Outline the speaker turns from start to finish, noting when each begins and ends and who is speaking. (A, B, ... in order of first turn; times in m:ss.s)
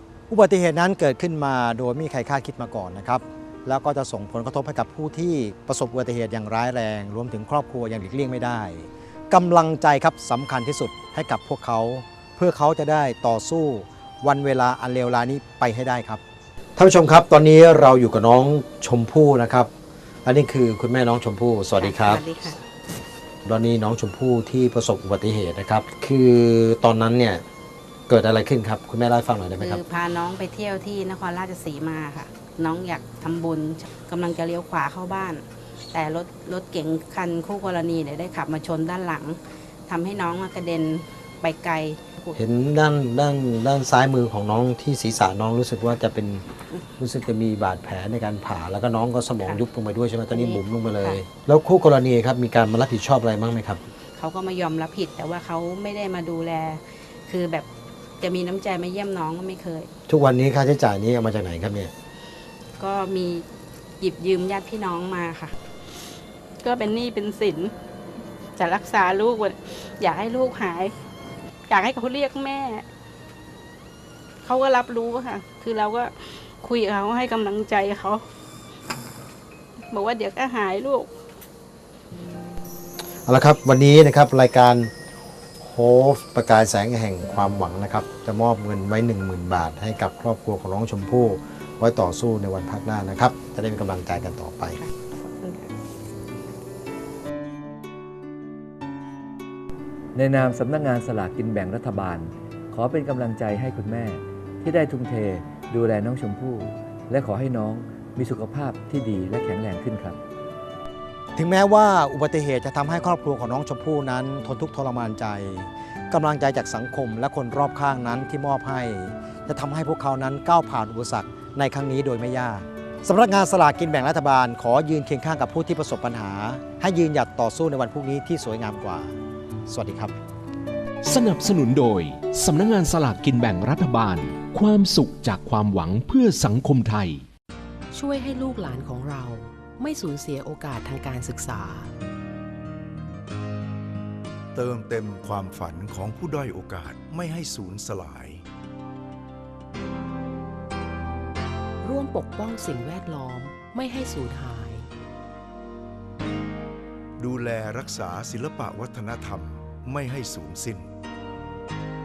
0:00.3-0:16.2 A
0:16.8-0:19.7 A
0:20.2-0:22.2 A
0:21.7-0:22.6 B
0:23.4-0:27.4 A
0:28.1-0:29.8 A
0:29.6-0:42.4 B
0:42.4-0:46.5 A
0:47.0-0:53.8 A
0:50.3-0:51.2 B
0:54.1-0:57.7 B
0:58.2-0:59.9 B
1:00.1-1:01.9 A
1:02.8-1:03.4 B
1:04.0-1:05.6 B
1:06.6-1:07.7 B
1:08.6-1:10.9 B
1:11.7-1:12.9 B
1:14.4-1:18.2 B
1:19.9-1:21.1 B
1:23.2-1:24.9 A
1:25.6-1:34.8 A
1:34.8-1:35.7 B
1:40.1-1:50.2 C
1:51.4-2:09.1 A
2:09.7-2:10.1 A
2:11.0-2:17.2 D
2:17.9-2:21.9 E
2:24.6-2:28.4 F
2:31.8-2:34.9 E
2:37.2-2:40.8 F